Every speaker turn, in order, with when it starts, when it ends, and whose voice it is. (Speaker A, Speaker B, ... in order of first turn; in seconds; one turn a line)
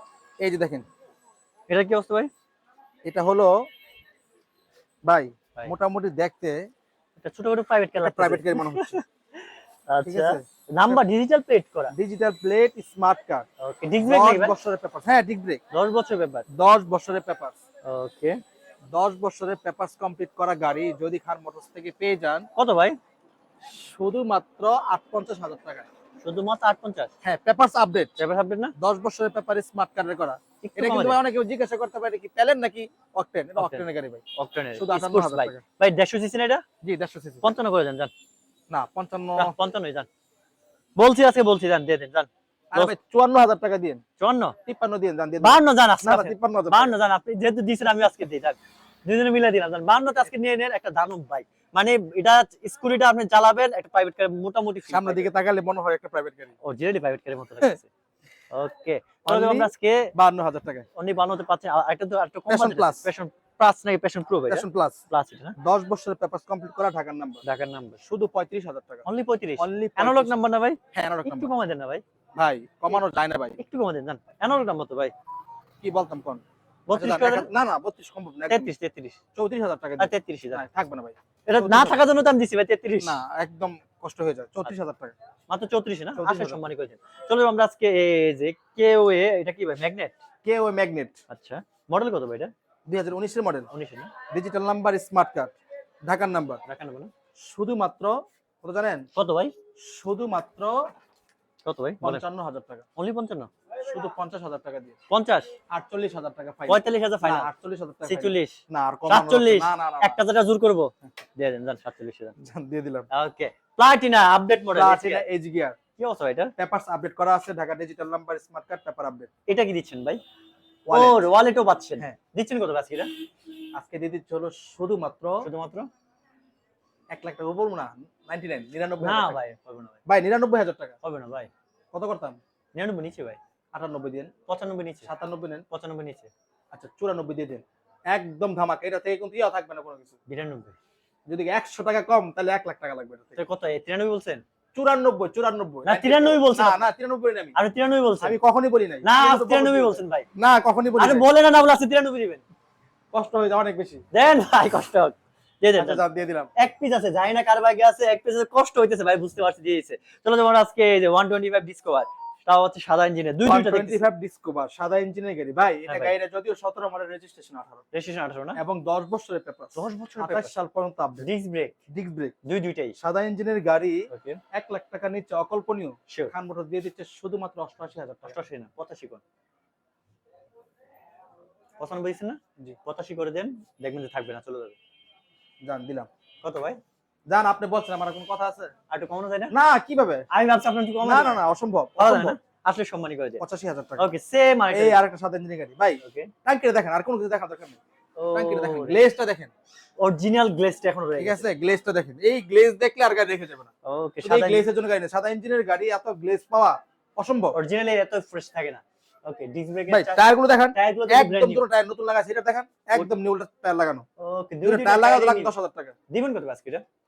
Speaker A: 0.4-0.8
Speaker B: 1.7-2.3
Speaker A: 3.0-3.5
Speaker A: 5.0-6.7
Speaker B: 7.2-11.9
Speaker A: 8.0-9.0
Speaker A: 10.0-11.0
Speaker A: 11.9-13.4
Speaker B: 13.6-14.5
Speaker A: 14.0-15.6
Speaker B: 15.7-16.4
Speaker A: 16.5-17.6
Speaker B: 17.8-18.4
Speaker A: 18.9-22.5
Speaker B: 22.6-23.0
Speaker A: 23.7-25.9
Speaker B: 26.2-27.1
Speaker A: 27.2-28.1
Speaker B: 28.2-28.7
Speaker A: 28.8-34.2
Speaker B: 30.6-31.2
Speaker B: 33.6-33.8
Speaker B: 34.4-36.6
Speaker A: 34.8-35.6
Speaker A: 36.8-37.5
Speaker B: 37.4-38.1
Speaker A: 38.7-39.6
Speaker B: 39.4-40.1
Speaker B: 41.0-42.9
Speaker A: 42.7-44.0
Speaker B: 44.2-44.5
Speaker A: 44.6-46.9
Speaker B: 45.4-55.3
Speaker A: 54.9-56.5
Speaker B: 56.6-57.9
Speaker B: 58.5-60.1
Speaker A: 59.2-60.9
Speaker B: 61.0-65.5
Speaker A: 62.5-63.1
Speaker A: 64.5-65.0
Speaker A: 65.6-67.4
Speaker B: 67.4-68.0
Speaker A: 68.0-69.0
Speaker B: 69.0-72.0
Speaker A: 69.6-70.3
Speaker A: 70.9-71.5
Speaker A: 72.4-73.6
Speaker B: 73.6-75.1
Speaker A: 75.8-76.4
Speaker B: 76.9-77.5
Speaker A: 76.9-78.7
Speaker B: 78.5-79.2
Speaker A: 79.3-82.0
Speaker B: 80.0-80.6
Speaker B: 81.5-83.1
Speaker A: 83.0-85.1
Speaker B: 85.5-90.1
Speaker A: 86.2-86.6
Speaker A: 90.4-91.2
Speaker B: 91.3-92.5
Speaker A: 92.9-93.7
Speaker B: 93.7-94.1
Speaker A: 94.3-95.5
Speaker A: 96.1-96.6
Speaker B: 96.6-97.1
Speaker A: 97.4-99.0
Speaker B: 99.1-99.5
Speaker A: 99.8-100.9
Speaker B: 101.6-102.2
Speaker A: 102.0-102.8
Speaker B: 103.0-103.5
Speaker A: 103.8-105.0
Speaker B: 105.1-105.5
Speaker A: 105.7-110.2
Speaker B: 106.7-107.5
Speaker B: 108.0-112.3
Speaker A: 112.4-113.1
Speaker B: 113.1-115.2
Speaker A: 114.7-115.8
Speaker B: 116.0-116.5
Speaker A: 116.6-119.3
Speaker B: 119.5-120.2
Speaker A: 120.9-121.3
Speaker B: 120.9-123.1
Speaker A: 123.8-125.5
Speaker B: 125.4-125.9
Speaker A: 127.1-129.4
Speaker B: 129.0-130.0
Speaker A: 130.1-130.9
Speaker B: 131.0-131.5
Speaker A: 131.9-132.4
Speaker B: 132.7-133.4
Speaker A: 133.7-134.3
Speaker B: 134.5-135.1
Speaker A: 135.0-135.6
Speaker B: 135.7-136.3
Speaker A: 136.7-140.2
Speaker B: 140.3-140.8
Speaker A: 141.3-143.4
Speaker B: 143.3-144.4
Speaker A: 144.7-147.6
Speaker B: 145.8-146.8
Speaker B: 147.6-148.4
Speaker A: 148.2-151.2
Speaker B: 149.0-150.3
Speaker B: 151.0-152.4
Speaker A: 153.1-154.0
Speaker B: 154.1-156.0
Speaker A: 155.7-156.5
Speaker B: 156.6-164.0
Speaker A: 163.4-167.8
Speaker B: 165.9-166.1
Speaker B: 167.9-168.6
Speaker A: 168.6-171.3
Speaker B: 169.8-170.5
Speaker B: 171.2-171.8
Speaker A: 171.9-172.3
Speaker B: 172.4-172.9
Speaker A: 173.0-178.3
Speaker B: 174.1-174.4
Speaker B: 178.2-179.2
Speaker B: 181.8-184.8
Speaker A: 185.6-186.1
Speaker B: 186.4-186.8
Speaker A: 187.3-188.7
Speaker B: 188.9-189.5
Speaker A: 189.5-190.2
Speaker B: 190.3-191.4
Speaker A: 191.0-192.3
Speaker B: 192.0-193.4
Speaker A: 193.4-194.1
Speaker B: 194.0-195.0
Speaker A: 194.7-197.8
Speaker B: 196.0-196.3
Speaker B: 198.2-199.0
Speaker A: 198.3-199.5
Speaker B: 200.0-201.4
Speaker A: 201.2-203.7
Speaker B: 203.8-204.7
Speaker A: 204.2-207.6
Speaker B: 207.5-211.6
Speaker A: 209.9-214.1
Speaker B: 214.2-215.5
Speaker A: 214.6-215.9
Speaker B: 216.1-216.8